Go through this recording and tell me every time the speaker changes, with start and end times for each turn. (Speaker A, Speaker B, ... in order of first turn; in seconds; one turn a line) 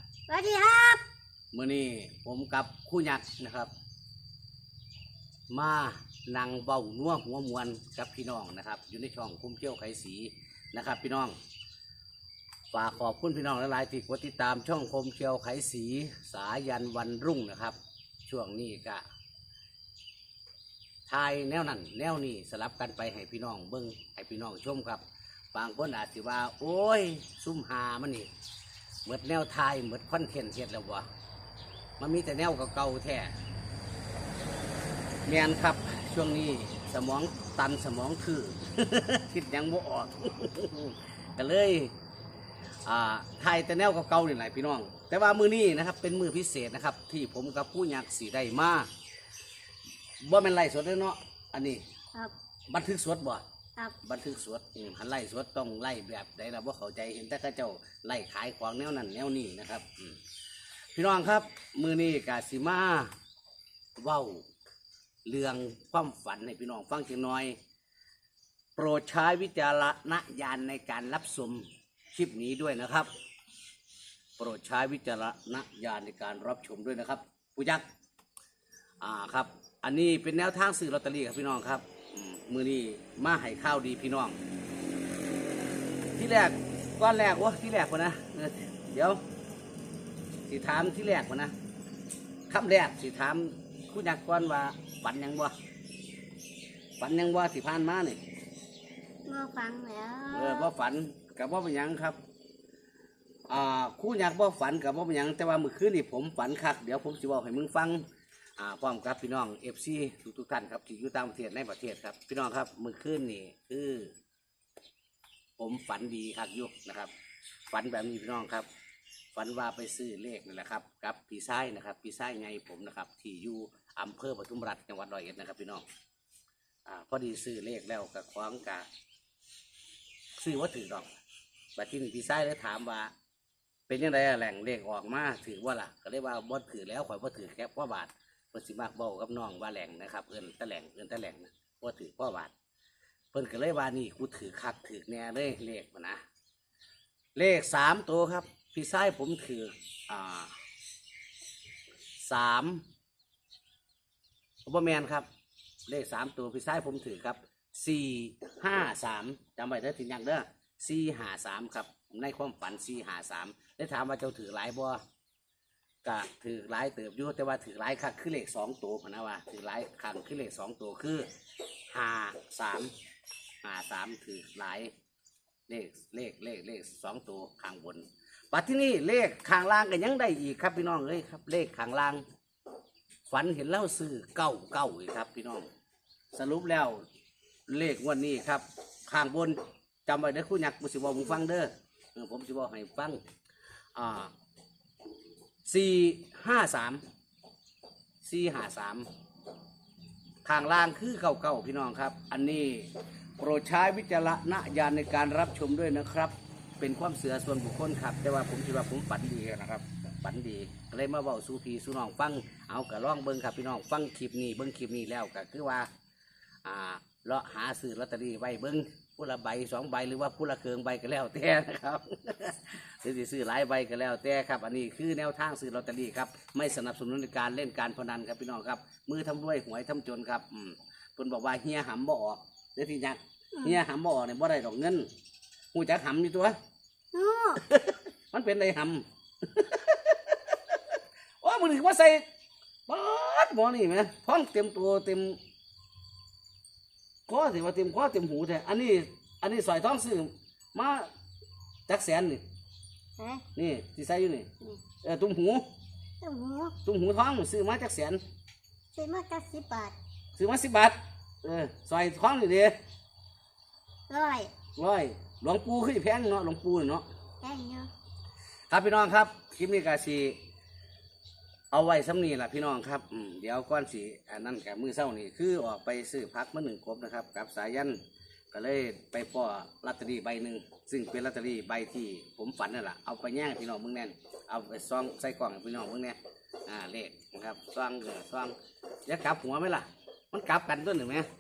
Speaker A: 0.3-1.0
Speaker B: 1.5-3.7
Speaker B: 5.5-11.4
Speaker B: 12.7-19.0
Speaker B: 21.1-25.0
Speaker B: 25.5-28.3
Speaker B: 29.1-31.1
Speaker B: 32.0-33.4
Speaker B: 35.3-41.9
Speaker B: 42.9-48.9
Speaker B: 50.2-51.8
Speaker B: 52.7-53.4
Speaker B: 54.0-60.2
Speaker B: 61.0-63.1
Speaker B: 64.0-64.5
Speaker B: 65.3-67.6
Speaker B: 68.8-73.1
Speaker B: 74.4-77.8
Speaker B: 79.0-84.4
Speaker B: 86.2-89.2
Speaker B: 90.5-91.5
Speaker B: 92.5-95.5
Speaker B: 97.0-98.2
Speaker A: 99.3-100.7
Speaker B: 100.3-102.2
Speaker B: 103.5-108.1
Speaker B: 108.6-114.1
Speaker B: 115.6-117.1
Speaker B: 117.7-118.7
Speaker B: 119.3-125.8
Speaker B: 126.9-128.9
Speaker B: 130.4-131.1
Speaker B: 131.8-133.1
Speaker B: 133.9-142.5
Speaker B: 143.3-146.2
Speaker B: 147.4-150.6
Speaker B: 152.2-152.8
Speaker B: 154.7-155.3
Speaker B: 155.9-165.0
Speaker B: 166.0-171.3
Speaker B: 171.9-172.9
Speaker B: 173.6-174.9
Speaker B: 175.7-182.2
Speaker B: 183.3-185.7
Speaker B: 186.3-187.0
Speaker B: 187.7-193.2
Speaker B: 193.9-194.3
Speaker B: 195.7-197.0
Speaker B: 198.2-199.1
Speaker B: 200.4-215.9
Speaker B: 216.7-235.1
Speaker B: 235.7-236.6
Speaker A: 237.1-237.6
Speaker B: 237.6-240.8
Speaker B: 241.4-242.2
Speaker B: 242.9-245.4
Speaker B: 247.3-251.1
Speaker B: 251.9-252.4
Speaker A: 253.2-253.4
Speaker B: 253.6-254.5
Speaker B: 255.0-255.7
Speaker A: 256.2-256.8
Speaker B: 256.8-258.2
Speaker A: 258.9-260.0
Speaker B: 260.4-262.8
Speaker A: 264.1-264.5
Speaker B: 264.8-267.1
Speaker A: 267.4-267.9
Speaker B: 268.7-270.4
Speaker B: 271.7-278.0
Speaker B: 278.5-288.6
Speaker B: 289.1-291.3